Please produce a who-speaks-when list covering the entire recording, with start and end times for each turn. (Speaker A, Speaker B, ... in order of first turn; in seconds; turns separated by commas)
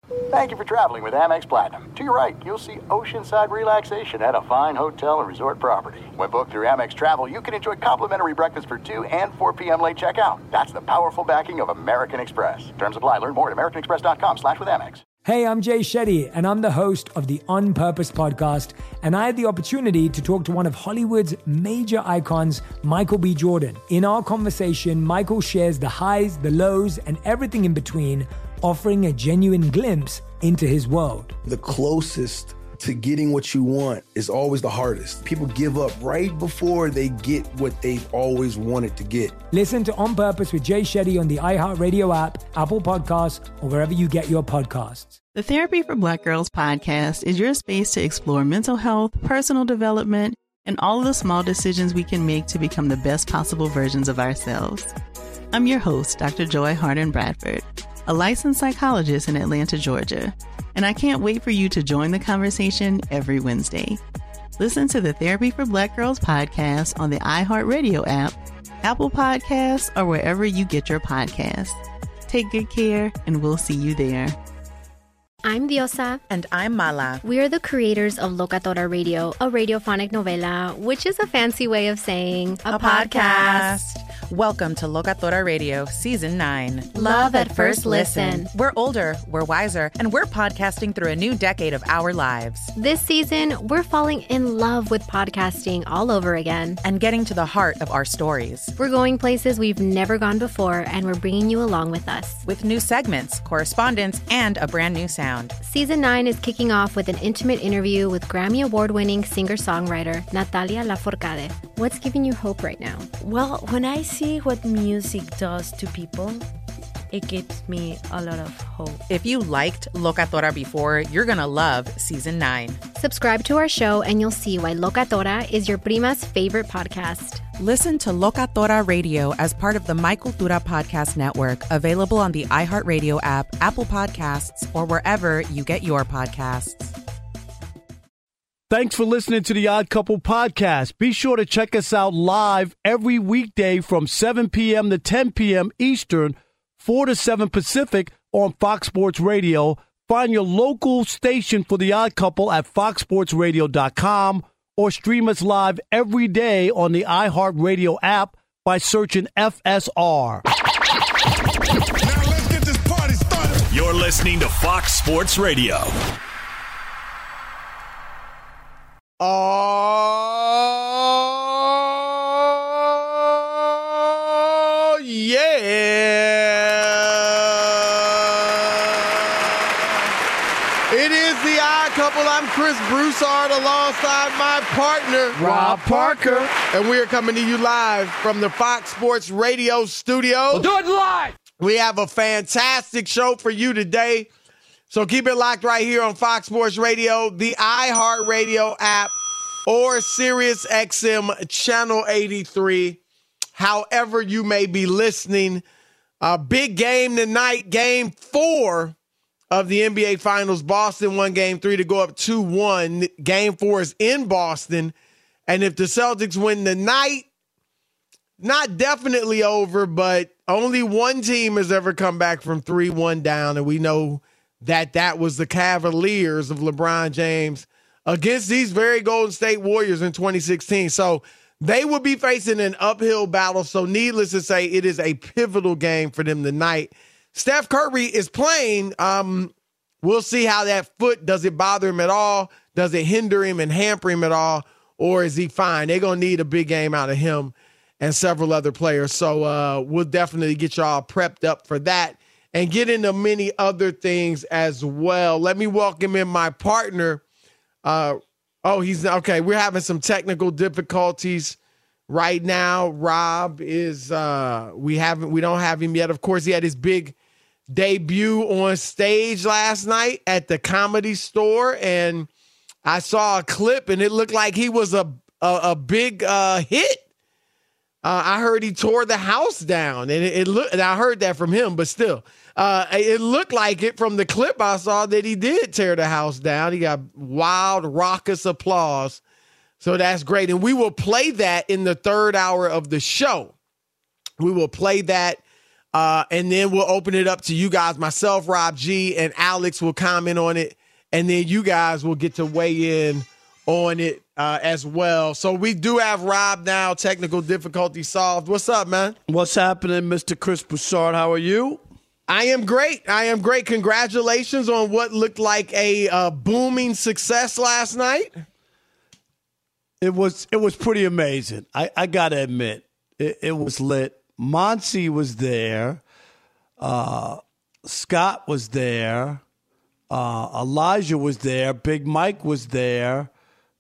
Speaker A: 0.3-15.0, Speaker B: 15.2-31.4, Speaker C: 31.4-39.4, Speaker B: 39.5-45.2, Speaker D: 45.4-54.9, Speaker D: 55.5-64.0, Speaker D: 64.6-74.4, Speaker E: 75.4-76.2, Speaker F: 76.3-77.2, Speaker E: 77.2-83.7, Speaker F: 82.7-92.7, Speaker E: 86.9-88.5, Speaker E: 92.8-96.8, Speaker F: 96.8-98.7, Speaker E: 98.8-102.4, Speaker F: 102.5-105.5, Speaker E: 105.6-113.1, Speaker G: 113.2-116.5, Speaker G: 117.1-119.1, Speaker F: 119.1-122.8, Speaker E: 123.0-127.4, Speaker F: 127.6-136.9, Speaker H: 138.7-160.4, Speaker I: 163.7-165.9, Speaker J: 169.2-180.1, Speaker J: 180.9-190.7, Speaker H: 185.3-186.6, Speaker J: 191.6-194.3, Speaker J: 194.9-199.1, Speaker J: 199.7-203.0, Speaker J: 203.6-205.6, Speaker J: 206.2-208.9, Speaker J: 209.5-214.9, Speaker J: 215.5-217.3, Speaker J: 218.4-257.2, Speaker J: 257.8-261.6, Speaker J: 262.1-267.1, Speaker J: 267.7-272.3, Speaker J: 272.8-277.1, Speaker J: 278.0-289.2, Speaker J: 289.8-293.5, Speaker J: 294.4-295.4, Speaker J: 295.9-309.2, Speaker H: 309.3-311.8, Speaker J: 312.3-318.3, Speaker H: 320.0-326.0, Speaker H: 326.8-329.4, Speaker H: 330.1-333.3